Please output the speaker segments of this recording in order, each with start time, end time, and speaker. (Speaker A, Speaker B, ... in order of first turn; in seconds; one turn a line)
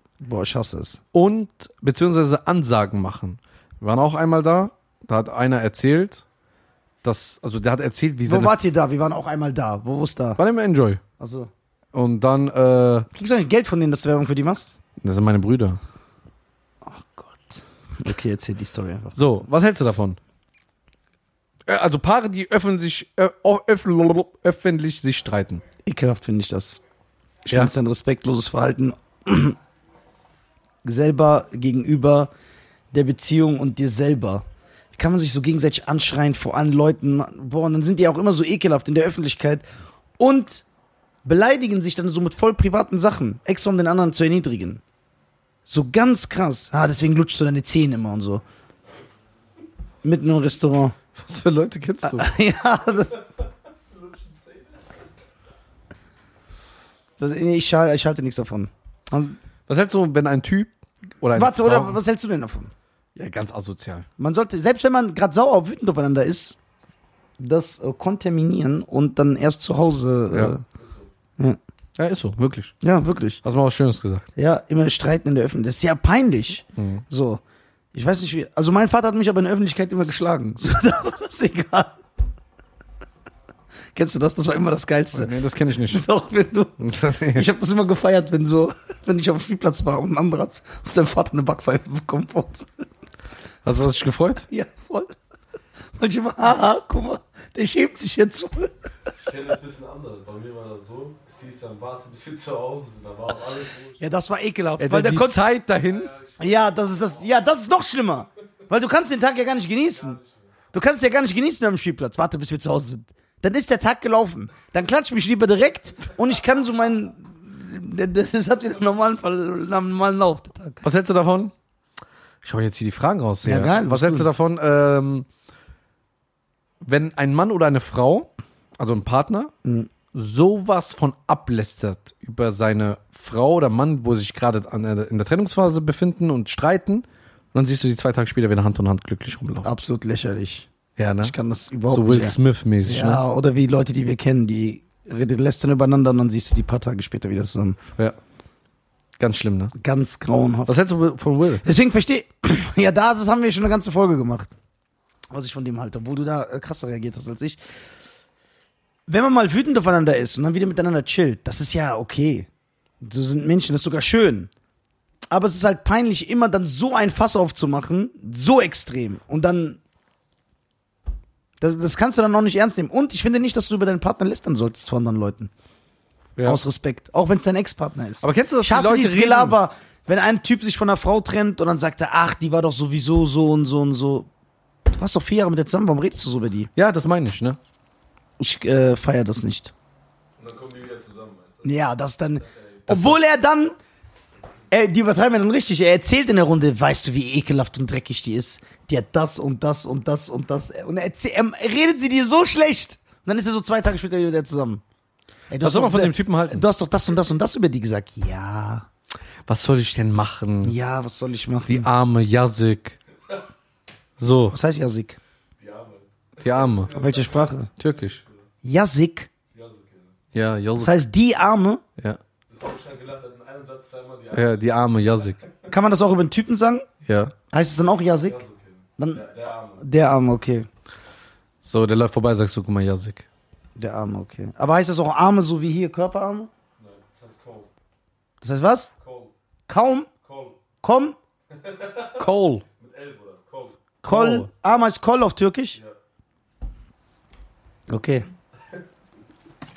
Speaker A: 0.2-1.0
Speaker B: 1.1-6.2
Speaker B: 7.0-8.6
Speaker A: 8.3-10.4
Speaker B: 10.4-11.0
Speaker A: 11.2-11.5
Speaker B: 11.9-13.1
Speaker A: 13.1-14.8
Speaker B: 15.0-15.8
Speaker A: 16.9-19.4
Speaker B: 19.1-20.2
Speaker B: 21.6-25.6
Speaker A: 25.9-26.8
Speaker A: 27.4-29.6
Speaker A: 30.8-32.3
Speaker A: 32.9-39.6
Speaker A: 40.2-40.6
Speaker A: 41.2-44.8
Speaker A: 45.6-48.4
Speaker A: 50.0-51.0
Speaker B: 51.1-52.3
Speaker A: 52.0-53.2
Speaker C: 53.9-54.8
Speaker A: 57.2-59.4
Speaker B: 59.7-62.0
Speaker A: 61.4-62.7
Speaker B: 63.1-64.1
Speaker A: 64.2-66.6
Speaker A: 67.4-70.6
Speaker C: 70.8-71.1
Speaker B: 72.0-72.8
Speaker A: 72.8-73.4
Speaker B: 73.4-74.3
Speaker A: 74.4-77.4
Speaker B: 76.8-77.0
Speaker A: 77.9-82.0
Speaker A: 84.0-85.3
Speaker B: 85.1-86.0
Speaker A: 85.9-92.9
Speaker B: 86.8-87.5
Speaker B: 93.6-94.5
Speaker A: 94.5-95.1
Speaker A: 96.0-98.7
Speaker C: 99.2-104.0
Speaker A: 104.0-105.5
Speaker B: 104.8-106.1
Speaker C: 105.8-107.3
Speaker A: 106.4-110.2
Speaker C: 110.0-110.5
Speaker A: 110.7-120.8
Speaker B: 120.8-121.5
Speaker B: 122.4-125.3
Speaker A: 123.5-124.3
Speaker B: 126.8-129.5
Speaker B: 130.1-139.7
Speaker A: 139.6-140.7
Speaker B: 141.0-141.3
Speaker A: 141.2-147.8
Speaker B: 141.9-143.2
Speaker B: 149.2-149.7
Speaker A: 149.8-150.8
Speaker B: 150.7-151.6
Speaker A: 151.6-154.5
Speaker A: 155.3-157.6
Speaker A: 159.1-162.5
Speaker A: 163.0-164.5
Speaker A: 165.3-169.8
Speaker A: 171.6-175.5
Speaker A: 176.4-184.3
Speaker B: 178.2-179.6
Speaker A: 184.9-186.7
Speaker B: 186.8-187.6
Speaker A: 188.4-189.7
Speaker C: 190.4-191.8
Speaker A: 191.6-193.8
Speaker C: 192.4-193.0
Speaker B: 192.9-193.2
Speaker A: 194.7-204.8
Speaker A: 205.5-208.9
Speaker B: 205.6-206.6
Speaker B: 209.5-210.8
Speaker A: 210.6-211.9
Speaker B: 211.7-213.0
Speaker B: 214.2-214.6
Speaker A: 214.5-215.2
Speaker C: 215.6-218.4
Speaker B: 216.4-216.9
Speaker A: 216.9-217.7
Speaker B: 217.8-218.2
Speaker A: 218.6-219.3
Speaker C: 219.5-220.2
Speaker B: 220.3-220.9
Speaker A: 220.8-221.8
Speaker C: 222.5-224.6
Speaker B: 224.3-225.4
Speaker A: 225.7-226.9
Speaker B: 227.1-227.3
Speaker A: 227.5-228.4
Speaker C: 228.3-229.8
Speaker A: 229.0-230.7
Speaker B: 231.6-233.3
Speaker A: 233.8-236.5
Speaker C: 236.8-237.7
Speaker A: 238.4-238.9
Speaker C: 239.0-239.3
Speaker A: 239.7-240.1
Speaker C: 240.2-240.6
Speaker A: 240.8-241.2
Speaker C: 241.5-242.3
Speaker B: 242.2-242.6
Speaker C: 242.8-243.8
Speaker B: 244.0-244.5
Speaker A: 244.1-245.8
Speaker A: 247.9-248.3